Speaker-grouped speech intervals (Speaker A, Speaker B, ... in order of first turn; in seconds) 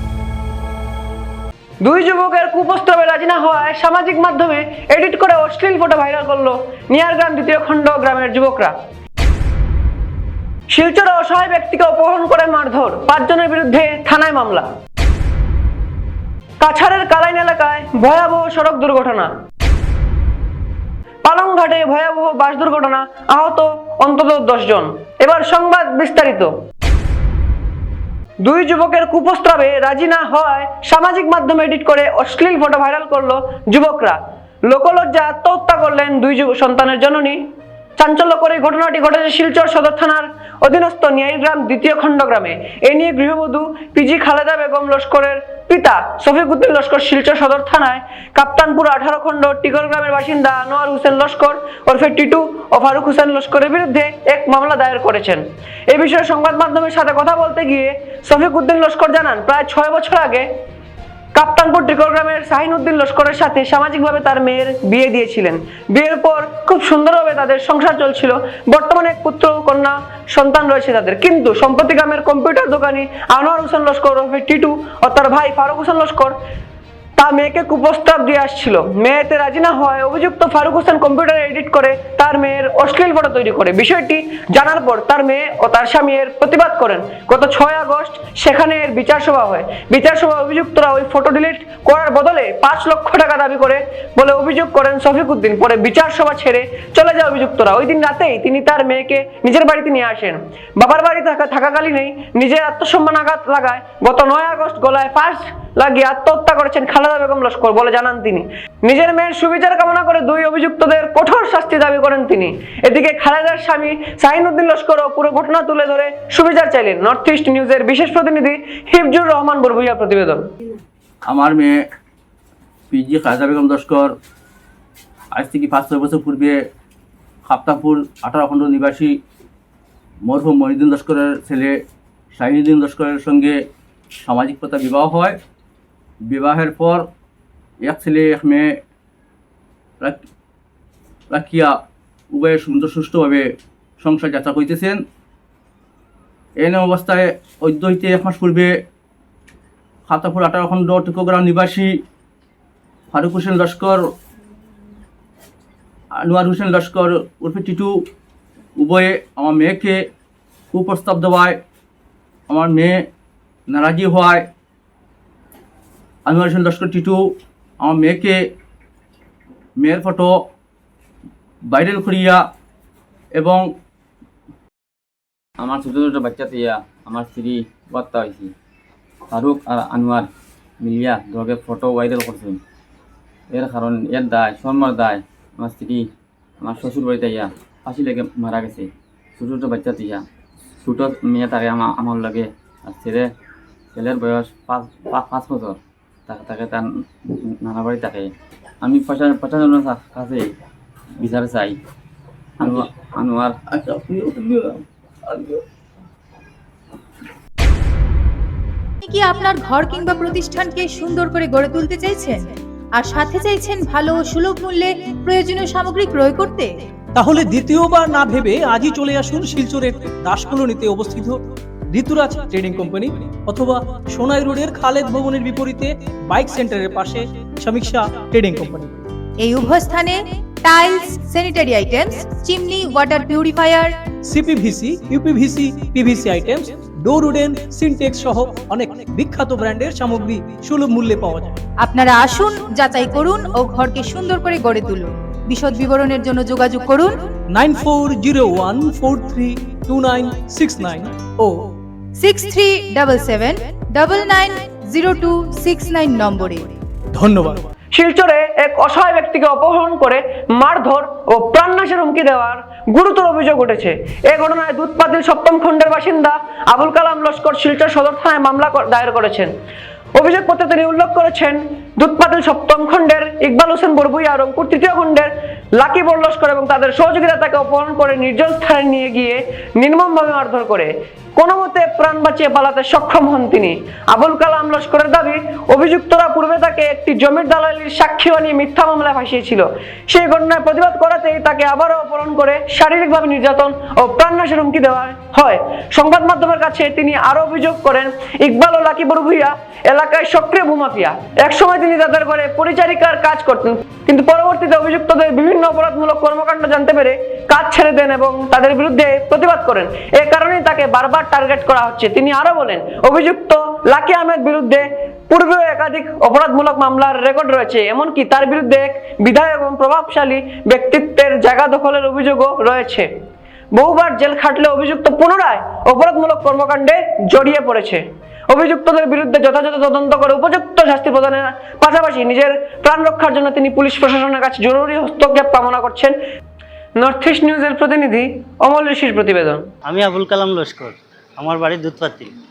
Speaker A: 1.8-8.7, 10.7-14.7, 16.6-19.3, 21.2-26.5, 28.4-37.4, 38.0-60.5, 61.3-76.3, 77.2-120.4, 257.9-269.5, 270.1-323.1, 323.7-336.1, 336.9-339.6
Speaker B: 121.2-121.8, 122.9-124.1, 125.3-126.6, 127.4-129.1, 130.2-131.8, 132.3-133.6, 134.2-135.4, 136.2-137.1, 137.8-138.7, 141.3-141.7, 142.3-143.4, 144.0-145.0, 146.6-148.7, 150.1-152.0, 153.1-154.0, 156.2-157.9, 158.8-160.0, 160.7-161.6, 162.5-163.0, 163.7-164.5, 166.2-167.2, 167.8-168.4, 169.8-170.4, 171.7-172.4, 173.3-173.7, 203.7-205.6
Speaker C: 175.6-178.5, 179.3-180.3, 180.8-182.6, 183.5-186.0, 186.6-190.2, 190.8-193.3, 193.9-195.8, 196.3-196.9, 197.6-198.3, 198.8-200.5, 201.2-201.8, 202.6-203.6
Speaker D: 209.0-216.9, 229.4-234.0, 241.8-247.3, 252.2-256.7
Speaker E: 217.1-229.0, 234.2-241.6, 247.5-251.5, 257.1-257.6
Speaker F: 339.8-342.3